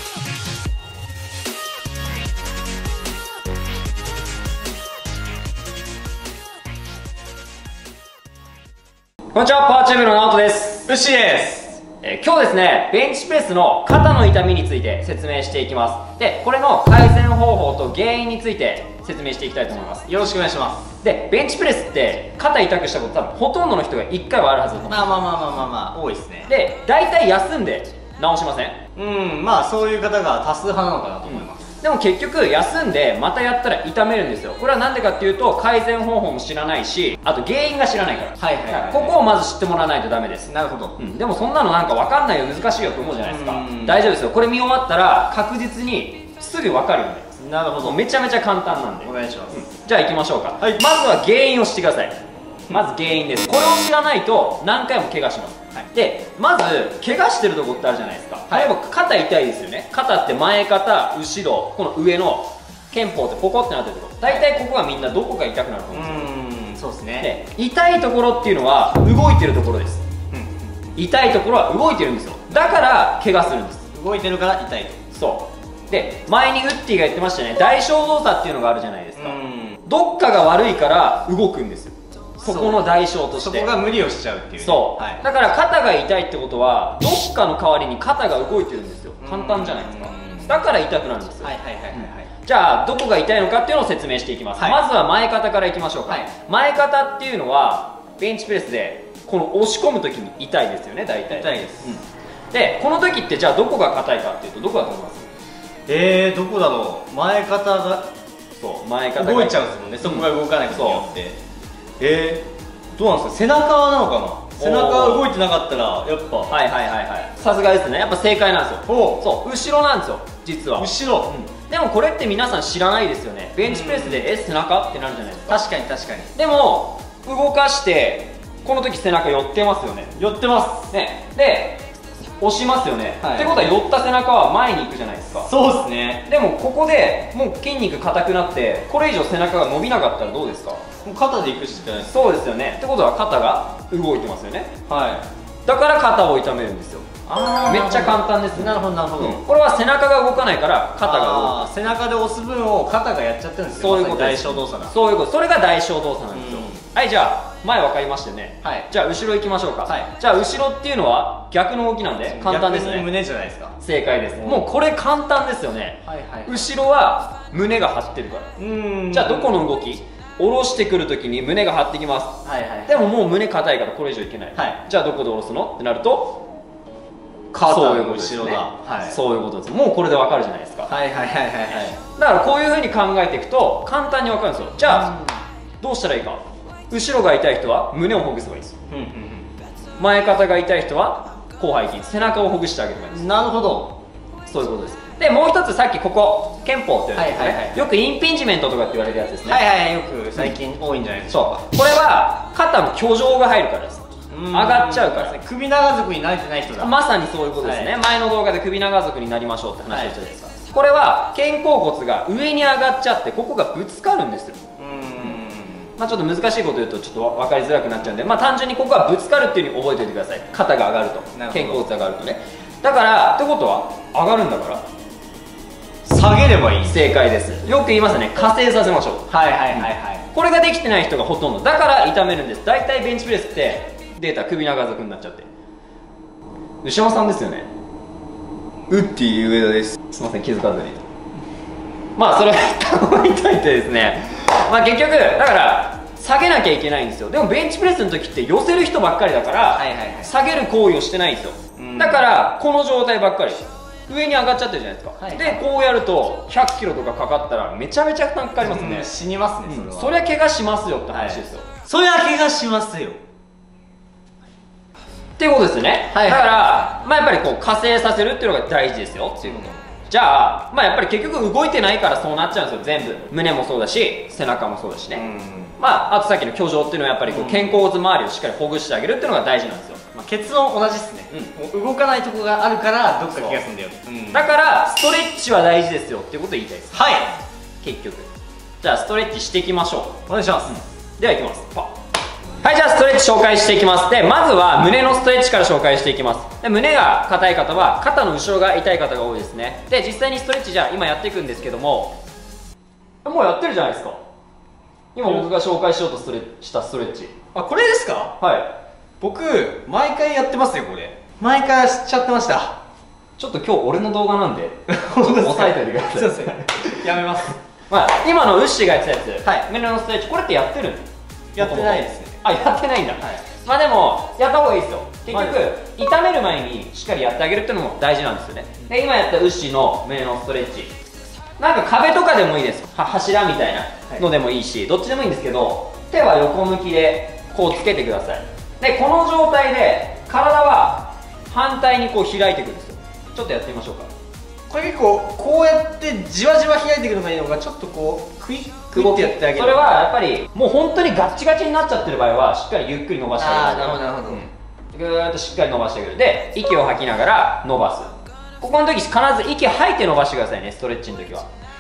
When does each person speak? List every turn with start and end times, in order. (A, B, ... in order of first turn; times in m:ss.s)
0:09.3-0:10.9 A
0:10.9-0:11.8 B
0:12.0-0:20.1 A
0:20.1-0:20.9 B
0:21.0-0:25.1 A
0:24.9-0:26.5 B
0:26.5-0:28.8 A
0:29.0-0:31.6 B
0:31.3-0:52.2 A
0:38.4-0:39.2 B
0:40.5-0:41.0 B
0:43.2-0:44.1 B
0:47.4-0:48.0 B
0:49.0-0:49.5 B
0:52.7-1:06.3 A
1:05.9-1:07.3 B
1:07.2-1:10.0 A
1:10.3-1:10.7 B
1:11.0-1:13.9 A
1:13.9-1:15.0 B
1:15.1-1:23.7 A
1:19.2-1:19.8 B
1:22.4-1:25.2 B
1:24.6-1:45.3 A
1:29.2-1:30.6 B
1:31.4-1:32.3 B
1:41.3-1:42.0 B
1:45.9-1:48.1 B
1:48.6-1:51.1 A
1:49.2-1:51.4 B
1:52.0-1:56.6 B
1:54.6-1:55.3 A
1:56.5-2:05.6 A
1:58.9-1:59.2 B
2:00.8-2:01.3 B
2:03.6-2:04.3 B
2:05.5-2:06.3 B
2:06.4-2:10.2 A
2:10.2-2:10.9 B
2:10.9-2:11.8 A
2:12.4-2:15.5 A
2:13.2-2:13.6 B
2:15.4-2:16.3 B
2:16.3-2:20.8 A
2:21.0-2:22.1 B
2:22.1-2:24.8 A
2:24.9-2:25.3 B
2:25.7-2:27.1 A
2:27.3-2:29.4 B
2:27.6-2:31.6 A
2:31.0-2:34.9 B
2:33.8-2:43.1 A
2:36.3-2:36.8 B
2:38.6-2:38.9 B
2:39.9-2:40.1 B
2:42.3-2:43.8 B
2:43.8-2:48.5 A
2:44.4-2:44.7 B
2:46.1-2:46.6 B
2:48.6-2:49.6 B
2:49.1-2:56.4 A
2:52.4-2:53.0 B
2:57.5-2:59.2 B
2:57.6-3:00.9 A
3:00.9-3:02.0 B
3:02.2-3:05.2 A
3:04.8-3:05.4 B
3:05.8-3:08.8 A
3:08.9-3:09.5 B
3:10.0-3:13.3 A
3:13.1-3:14.0 B
3:14.5-3:19.6 A
3:17.2-3:17.8 B
3:19.4-3:21.6 B
3:21.3-3:25.4 A
3:24.3-3:27.0 B
3:26.8-3:34.6 A
3:27.6-3:27.9 B
3:29.9-3:30.1 B
3:34.8-3:35.9 B
3:36.0-3:44.9 A
3:41.4-3:41.9 B
3:46.0-3:47.0 B
3:46.8-3:55.5 A
3:49.3-3:50.3 B
3:56.8-3:57.7 A
3:58.9-4:01.0 A
4:02.2-4:19.1 A
4:09.7-4:10.3 B
4:11.8-4:12.3 B
4:15.2-4:15.6 B
4:18.6-4:20.2 B
4:19.7-4:21.7 A
4:21.1-4:23.2 B
4:25.4-4:35.2 A
4:26.1-4:26.8 B
4:29.4-4:29.8 B
4:35.2-4:35.8 B
4:35.8-4:40.1 A
4:37.3-4:37.8 B
4:40.1-4:44.5 B
4:44.3-4:47.0 A
4:46.9-4:47.4 B
4:47.8-4:48.3 A
4:48.8-4:52.0 A
4:50.3-4:50.7 B
4:52.6-5:02.2 A
5:03.2-5:04.2 A
5:05.2-5:07.3 A
5:07.5-5:08.4 B
5:08.4-5:08.7 A
5:09.2-5:12.8 B
5:13.4-5:17.0 A
5:14.9-5:17.6 B
5:17.9-5:30.9 A
5:21.6-5:22.4 B
5:25.3-5:25.6 B
5:31.6-5:44.1 A
5:44.7-5:49.9 B
5:48.9-6:01.5 A
5:53.4-5:54.5 B